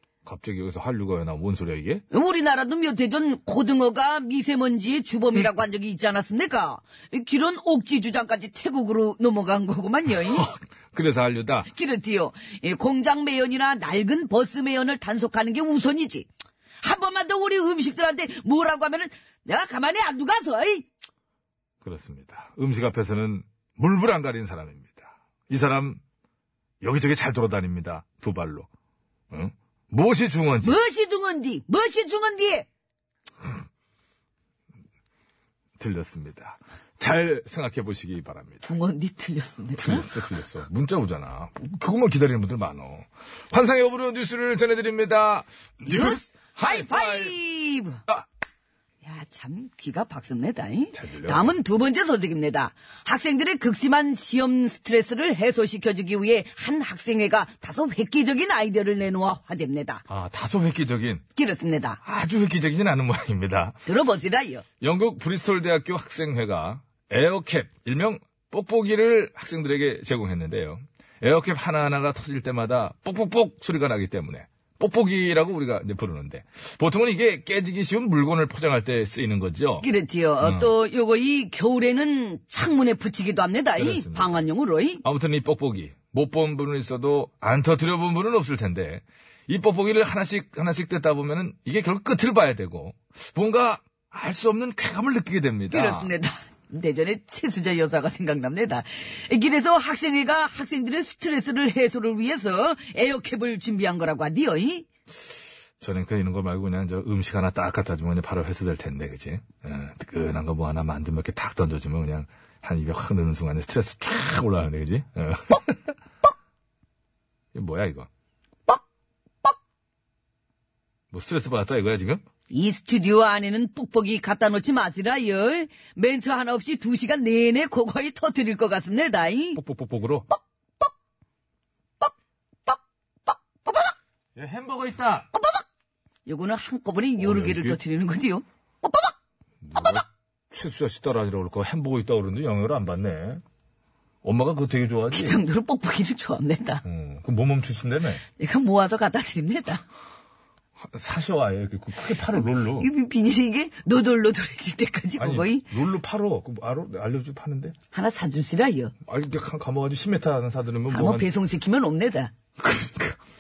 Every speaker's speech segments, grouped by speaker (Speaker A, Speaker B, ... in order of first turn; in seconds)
Speaker A: 0.2-2.0, 10.1-11.7, 21.8-26.0, 26.8-28.7, 29.3-30.8, 35.8-38.6, 39.8-47.3, 50.9-51.6, 60.1-61.2, 62.0-63.8, 64.8-79.9, 80.4-80.7, 83.8-84.4, 85.0-96.1, 105.8-115.9, 117.5-118.1, 121.1-122.2, 129.6-130.3, 134.4-135.3, 137.2-137.8, 139.6-143.4, 144.2-145.4, 146.8-148.2, 150.8-152.9, 155.2-157.8, 159.1-161.3, 162.6-163.2
Speaker B: 2.1-10.5, 11.7-16.3, 16.8-20.9, 30.6-32.7, 38.6-40.1, 45.9-48.0, 49.0-60.0, 61.4-62.0, 63.9-64.6, 79.8-85.0, 95.7-104.9, 122.5-129.6, 130.3-130.9, 132.7-133.9, 135.3-135.6, 136.3-139.1, 139.8-140.0, 145.1-146.8, 148.4-149.8, 152.8-155.7, 157.9-158.9, 160.9-162.3